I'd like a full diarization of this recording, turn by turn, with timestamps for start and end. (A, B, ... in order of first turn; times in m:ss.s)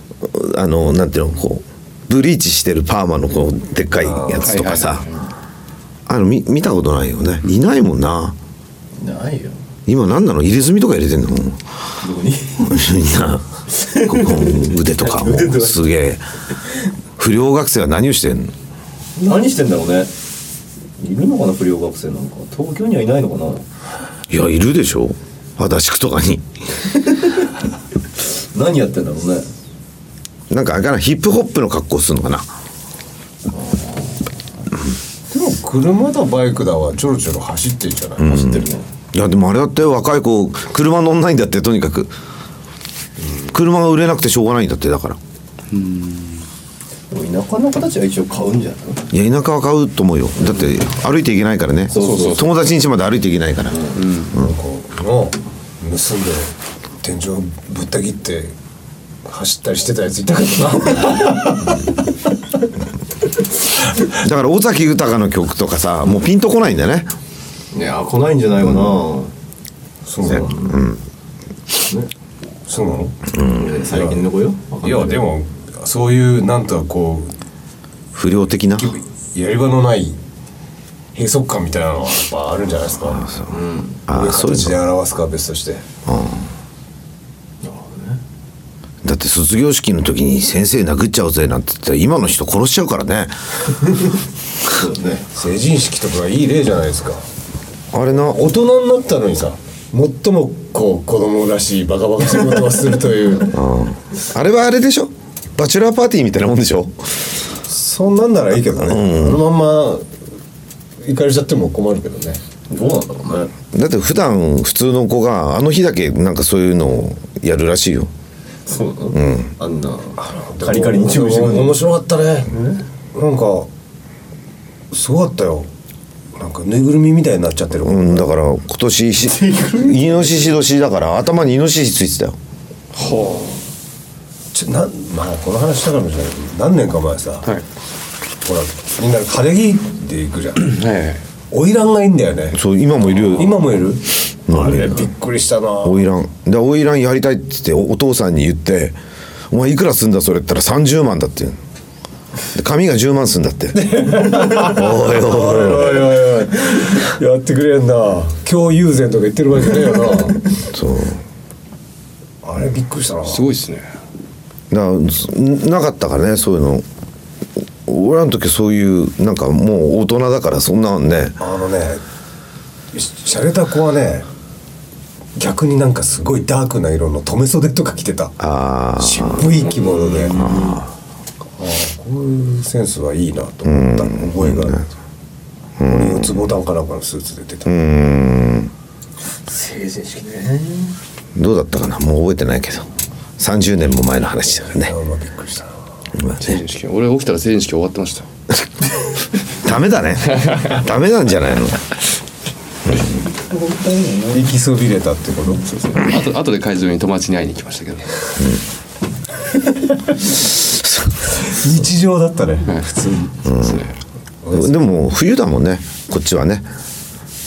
0:00.2-0:05.1 A
0:04.2-0:04.5 B
0:04.4-0:05.1 C
0:06.1-0:08.4 A
0:08.9-0:09.6 B
0:09.9-0:11.6 A
0:12.0-0:12.9 B
0:12.6-0:16.2 A
0:13.7-0:15.9 B
0:17.2-0:18.5 A
0:19.2-0:20.1 B
0:21.0-0:23.6 B
0:24.3-0:26.4 A
0:26.9-0:27.5 B
0:28.3-0:29.5 B
0:30.5-0:32.5 A
0:33.5-0:34.1 B
0:35.3-0:38.4 D
0:38.2-0:42.1 A
0:38.2-0:38.9 B
0:43.5-0:45.2 A
0:45.7-0:46.4 C
0:47.1-0:49.1 B
0:49.1-0:54.5 A
0:51.9-0:52.5 B
0:51.9-0:52.5 C
0:53.7-0:54.0 B
0:54.0-0:54.3 C
0:54.3-0:58.5 D
0:59.2-1:01.9 D
1:04.2-1:07.1 A
1:07.7-1:09.3 B
1:10.0-1:10.5 D
1:10.2-1:10.8 B
1:10.7-1:11.0 A
1:12.6-1:13.2 D
1:13.3-1:13.8 A
1:13.4-1:15.3 B
1:13.9-1:14.2 D
1:14.8-1:17.3 D
1:18.1-1:18.9 A
1:18.8-1:20.2 D
1:21.1-1:23.3 D
1:23.1-1:23.5 A
1:23.5-1:24.0 B
1:24.1-1:24.8 A
1:24.1-1:25.8 D
1:26.0-1:26.5 A
1:27.6-1:28.2 B
1:29.0-1:33.3 A
1:34.6-1:35.3 B
1:35.3-1:37.2 D
1:37.9-1:38.4 A
1:38.1-1:43.6 D
1:43.5-1:47.2 A
1:47.6-1:49.2 D
1:48.8-1:49.4 A
1:49.0-1:50.1 B
1:51.0-1:52.4 D
1:52.7-1:53.5 B
1:53.7-1:58.1 A
1:58.6-2:01.8 B
1:59.1-1:59.5 A
2:00.2-2:02.6 D
2:02.5-2:02.8 B
2:03.1-2:03.7 D
2:04.9-2:05.7 D
2:06.3-2:08.3 D
2:07.8-2:12.4 A
2:09.2-2:10.6 B
2:12.9-2:13.5 C
2:14.5-2:17.5 D
2:18.4-2:20.8 D
2:20.6-2:21.2 C
2:21.5-2:22.6 D
2:22.5-2:23.6 A
2:23.2-2:26.1 D
2:24.5-2:25.1 A
2:25.8-2:29.0 A
2:29.5-2:31.6 A
2:32.5-2:36.2 A
2:33.7-2:40.6 D
2:40.6-2:41.2 A
2:42.4-2:43.5 D
2:43.2-2:43.8 C
2:44.7-2:46.8 A
2:47.8-2:51.4 A
2:51.4-2:52.0 D
2:52.9-2:54.3 D
2:55.4-2:58.4 D
2:58.4-2:59.5 A
2:59.0-3:00.6 D
2:59.8-3:00.8 B
2:59.8-3:00.3 C
3:00.3-3:00.9 A
3:01.6-3:04.9 D
3:03.6-3:04.8 A
3:05.8-3:06.5 A
3:05.9-3:07.7 D
3:07.6-3:08.7 A
3:09.4-3:11.0 B
3:11.4-3:12.9 A
3:13.4-3:14.9 A
3:14.8-3:15.7 D
3:16.1-3:16.6 A
3:16.4-3:18.2 C
3:19.6-3:21.8 A
3:20.3-3:20.7 C
3:22.9-3:23.2 A
3:23.5-3:24.5 B
3:24.3-3:25.6 D
3:25.6-3:28.2 C
3:30.6-3:31.2 A
3:31.3-3:33.4 D
3:33.4-3:33.8 A
3:33.5-3:34.0 C
3:34.4-3:34.8 D
3:34.5-3:36.6 A